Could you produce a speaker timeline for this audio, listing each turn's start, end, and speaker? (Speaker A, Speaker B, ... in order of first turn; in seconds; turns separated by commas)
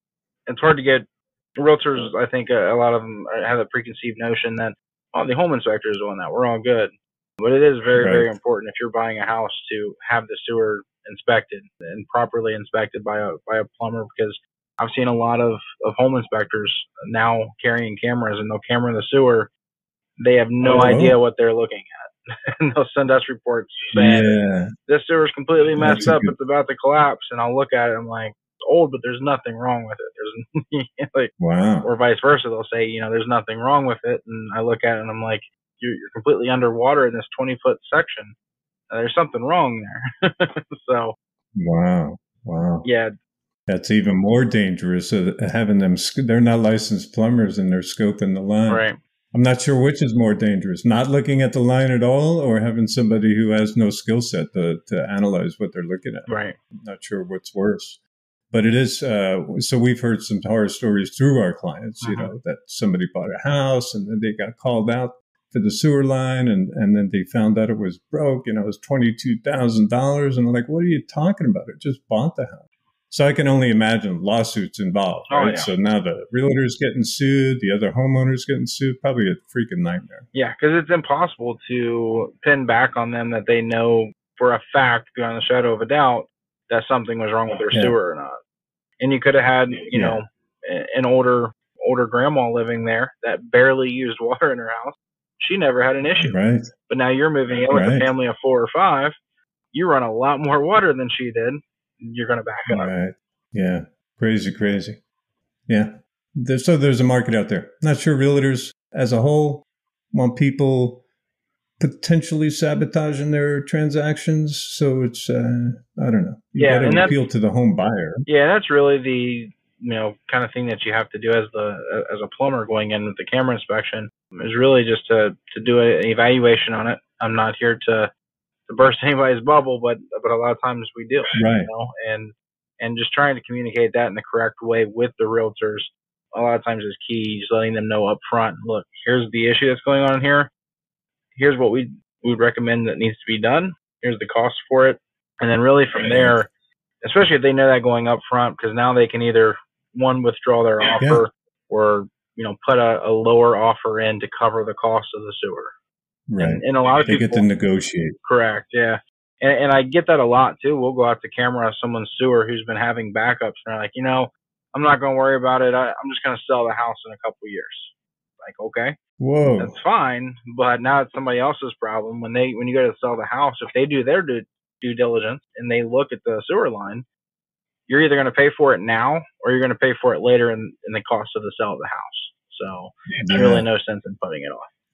Speaker A: 0.5-19.5, Speaker B: 8.0-8.3, Speaker A: 20.2-24.3, Speaker B: 20.6-21.2, Speaker B: 23.9-24.7, Speaker A: 24.9-38.3, Speaker B: 25.8-26.3, Speaker B: 31.4-31.9, Speaker A: 38.9-41.1, Speaker B: 41.5-42.9, Speaker A: 42.8-43.1, Speaker B: 43.7-80.2, Speaker A: 48.7-49.0, Speaker A: 56.3-56.6, Speaker A: 62.0-62.3, Speaker A: 75.3-75.7, Speaker A: 80.3-88.4, Speaker B: 87.7-88.0, Speaker A: 89.0-96.3, Speaker B: 89.9-90.2, Speaker B: 96.2-96.7, Speaker A: 96.9-99.1, Speaker B: 97.7-98.1, Speaker A: 99.7-102.9, Speaker B: 102.7-105.0, Speaker B: 105.7-111.0, Speaker B: 111.8-118.2, Speaker A: 116.6-117.2, Speaker A: 118.3-128.1, Speaker A: 128.7-140.5, Speaker B: 131.4-131.7, Speaker A: 141.3-146.5, Speaker B: 146.0-146.4, Speaker A: 147.0-155.7, Speaker B: 151.0-151.2, Speaker B: 156.3-158.2, Speaker A: 156.4-157.4, Speaker A: 158.2-169.0, Speaker B: 169.2-169.8, Speaker A: 169.5-177.1, Speaker A: 177.9-184.7, Speaker B: 183.2-183.7